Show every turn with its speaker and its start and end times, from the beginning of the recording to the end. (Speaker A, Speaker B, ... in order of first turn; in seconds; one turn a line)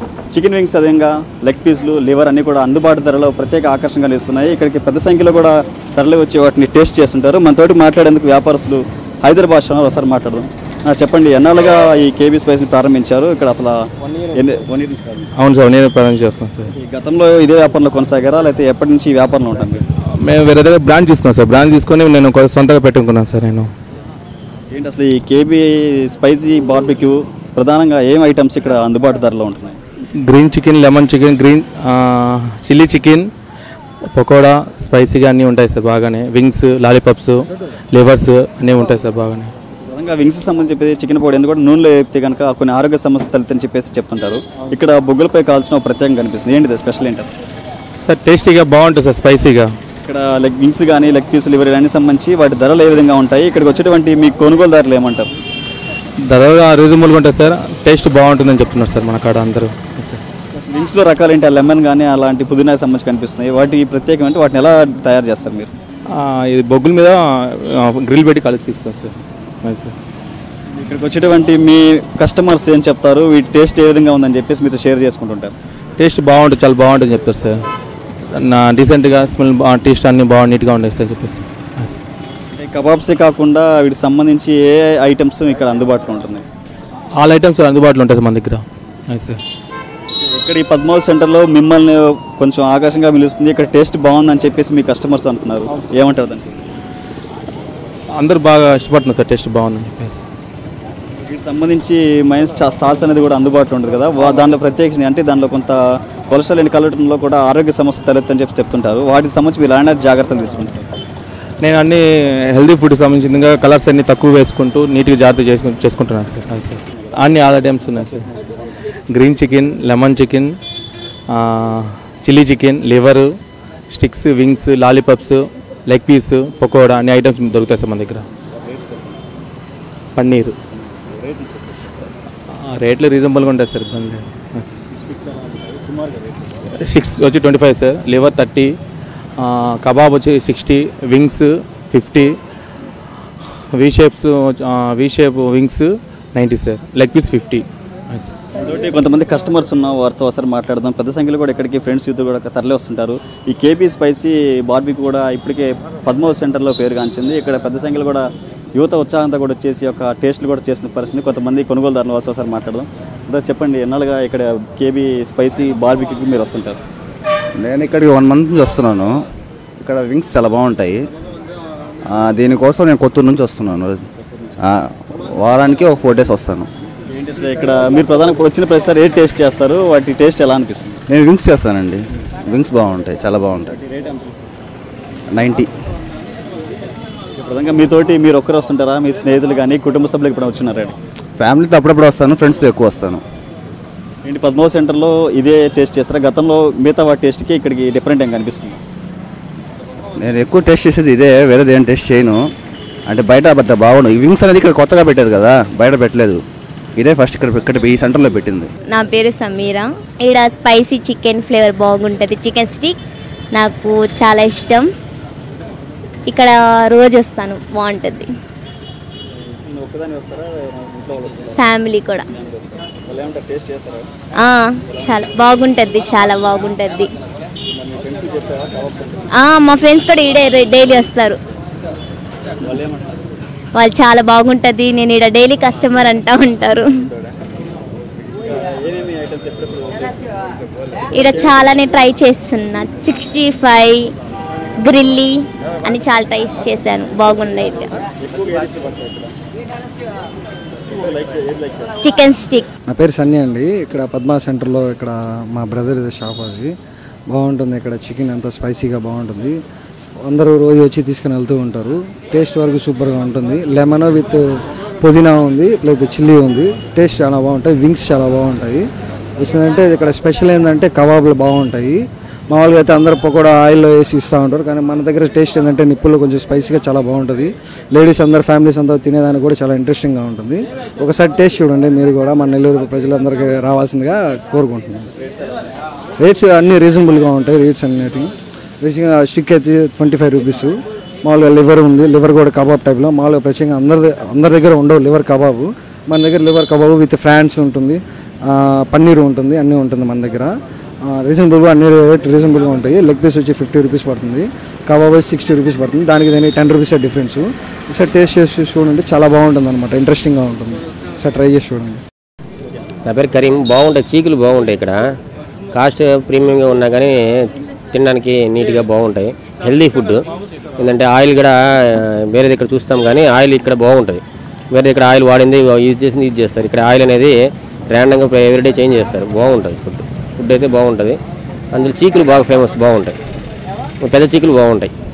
Speaker A: 0.3-13.8
Speaker A: 14.3-15.3
Speaker B: 15.4-16.7
Speaker A: 16.8-19.9
Speaker B: 20.2-23.7
Speaker A: 24.7-29.8
Speaker B: 30.2-33.3
Speaker B: 34.1-39.5
Speaker A: 39.9-47.3
Speaker B: 48.0-49.7
Speaker A: 50.0-55.3
Speaker B: 56.3-60.2
Speaker A: 60.6-65.7
Speaker B: 66.1-69.9
Speaker A: 70.8-75.5
Speaker B: 76.0-77.5
Speaker B: 78.3-81.9
Speaker A: 82.5-86.4
Speaker B: 87.2-89.4
Speaker A: 90.2-96.5
Speaker B: 98.2-100.2
Speaker A: 101.2-105.8
Speaker A: 106.3-110.8
Speaker B: 111.6-118.3
Speaker B: 119.1-120.6
Speaker B: 121.3-123.3
Speaker B: 123.9-128.2
Speaker A: 128.6-129.2
Speaker B: 130.2-130.5
Speaker A: 130.9-131.7
Speaker B: 132.7-134.7
Speaker A: 135.0-136.6
Speaker B: 136.7-138.8
Speaker B: 139.4-142.3
Speaker B: 143.8-148.3
Speaker A: 148.6-166.8
Speaker C: 167.6-169.2
Speaker C: 169.8-171.1
Speaker C: 172.1-174.1
Speaker C: 174.6-176.7
Speaker A: 177.1-181.0
Speaker C: 181.1-183.7
Speaker A: 183.7-184.4
Speaker C: 185.3-185.7
Speaker A: 187.4-190.9
Speaker C: 191.4-193.2
Speaker A: 194.2-198.8
Speaker C: 200.2-202.4
Speaker C: 203.1-206.4
Speaker C: 207.0-208.7
Speaker D: 208.9-213.0
Speaker D: 213.5-214.9
Speaker D: 216.3-218.3
Speaker A: 219.6-224.1
Speaker D: 221.6-222.2
Speaker D: 224.4-227.1
Speaker A: 227.7-229.3
Speaker D: 229.4-231.4
Speaker A: 232.6-233.2
Speaker D: 233.7-236.9
Speaker A: 238.3-241.8
Speaker D: 241.1-244.1
Speaker D: 244.8-247.9
Speaker A: 248.2-249.3
Speaker A: 250.9-252.0
Speaker D: 252.0-252.7
Speaker E: 252.9-256.7
Speaker E: 257.3-259.6
Speaker E: 260.3-264.4
Speaker E: 265.0-268.8
Speaker E: 269.4-285.1
Speaker A: 285.2-285.7
Speaker E: 286.2-288.3
Speaker E: 288.8-300.5
Speaker E: 301.0-312.0
Speaker F: 313.0-315.0
Speaker F: 315.7-320.2
Speaker F: 320.8-327.3
Speaker F: 327.9-331.2
Speaker F: 331.7-333.1
Speaker F: 334.0-334.9